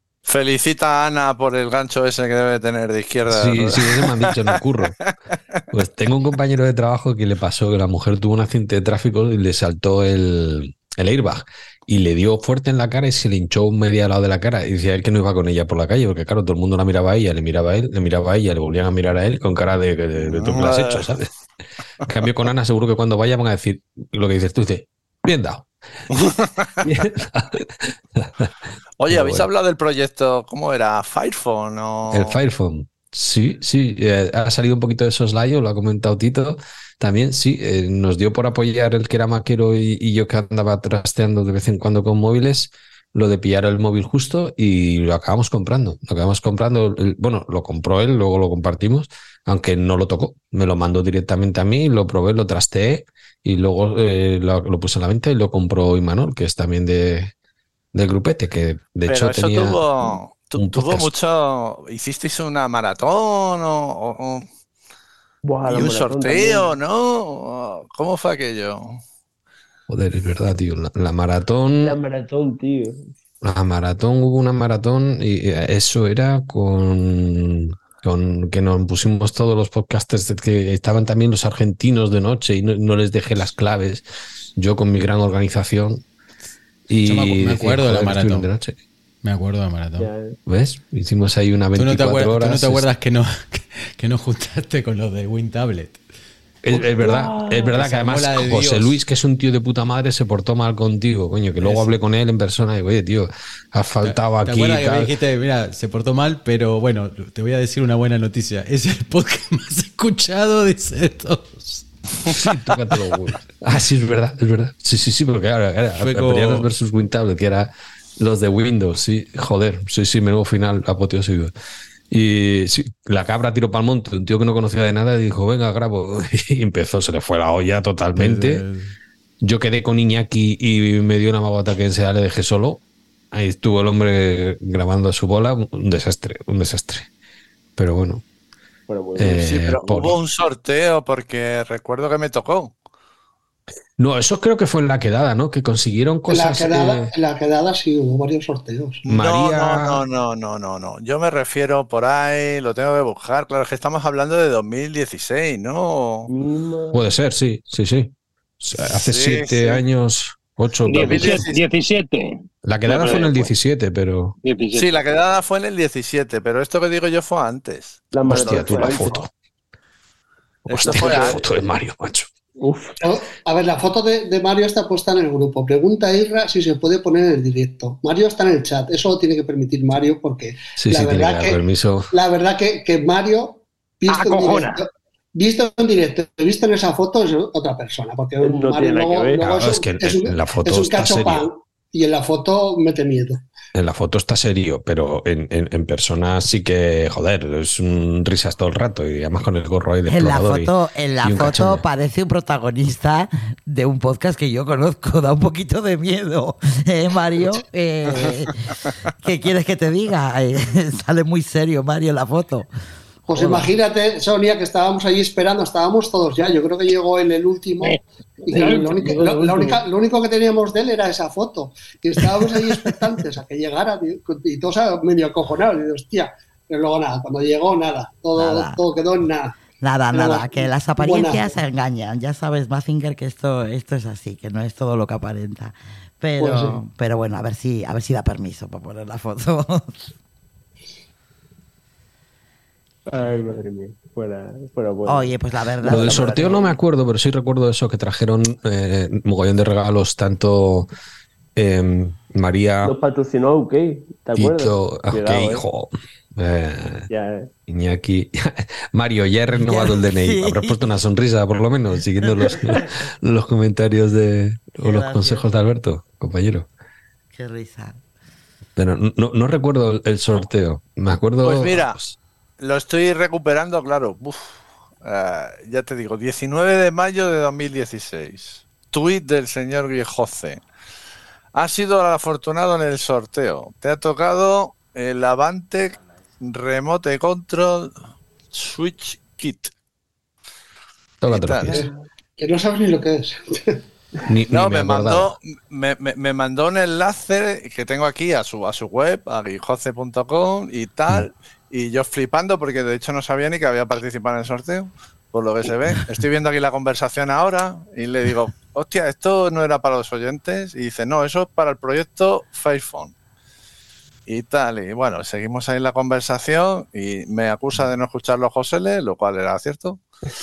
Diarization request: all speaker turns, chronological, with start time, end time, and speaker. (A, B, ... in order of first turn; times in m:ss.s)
0:00.3-0:05.1 A
0:03.3-0:04.9 B
0:05.7-0:21.3 B
0:20.1-0:21.2 A
0:22.1-0:25.6 B
0:26.4-0:27.0 A
0:27.0-0:28.5 B
0:29.0-0:32.4 A
0:29.1-0:29.5 B
0:32.1-0:57.3 B
0:57.9-1:01.1 B
0:59.1-1:04.4 A
1:05.4-1:06.7 C
1:05.7-1:09.0 A
1:09.9-1:12.0 B
1:11.8-1:13.0 C
1:13.4-1:24.0 B
1:24.6-1:26.0 B
1:26.9-1:28.8 B
1:27.0-1:28.5 D
1:29.2-1:30.1 D
1:30.0-1:30.4 C
1:30.5-1:32.9 B
1:31.7-1:36.0 D
1:36.6-1:45.2 B
1:36.8-1:39.0 D
1:41.6-1:41.9 D
1:44.0-1:51.8 D
1:52.6-2:01.5 B
1:56.0-1:56.7 D
2:02.1-2:08.6 B
2:08.2-2:08.9 D
2:09.4-2:12.8 B
2:13.3-2:17.1 B
2:17.8-2:18.2 B
2:18.9-2:19.4 C
2:19.2-2:20.2 B
2:19.3-2:22.7 A
2:24.0-2:27.1 B
2:26.3-2:29.0 E
2:29.0-2:36.3 A
2:29.1-2:30.0 B
2:36.3-2:37.0 C
2:36.9-2:41.4 B
2:38.7-2:39.8 A
2:40.9-2:43.2 F
2:40.9-2:41.7 A
2:42.6-2:44.4 B
2:42.9-2:43.4 A
2:44.4-2:44.9 F
2:44.7-2:48.8 A
2:48.1-2:49.2 C
2:48.2-2:49.3 B
2:50.7-2:52.3 B
2:50.7-2:51.4 A
2:50.7-2:51.4 C
2:52.6-2:53.0 C
2:53.0-3:01.6 E
3:00.8-3:02.1 B
3:02.1-3:13.4 E
3:04.1-3:04.8 F
3:08.4-3:09.6 C
3:09.4-3:11.5 B
3:13.7-3:20.7 B
3:20.0-3:28.6 G
3:21.2-3:21.8 B
3:29.2-3:32.7 G
3:33.3-3:49.5 E
3:33.3-3:33.7 G
3:38.5-3:39.8 C
3:48.4-3:48.8 G
3:49.8-4:00.1 G
3:50.1-3:51.5 E
3:56.4-3:56.8 E
4:03.1-4:06.7 C
4:05.1-4:06.6 G
4:05.9-4:10.9 B
4:11.6-4:12.9 B
4:12.8-4:15.6 C
4:14.4-4:17.1 B
4:17.1-4:17.5 C
4:17.7-4:26.7 B
4:19.6-4:20.8 G
4:24.8-4:25.4 G
4:27.3-4:28.0 G
4:28.8-4:32.2 B
4:31.4-4:32.0 A
4:32.6-4:40.6 A
4:41.5-4:47.9 A
4:48.5-4:49.7 A
4:51.2-4:51.9 B
4:51.2-4:51.9 A
4:51.7-4:53.8 E
4:54.3-4:55.3 B
4:54.5-5:13.1 A
5:14.3-5:20.0 A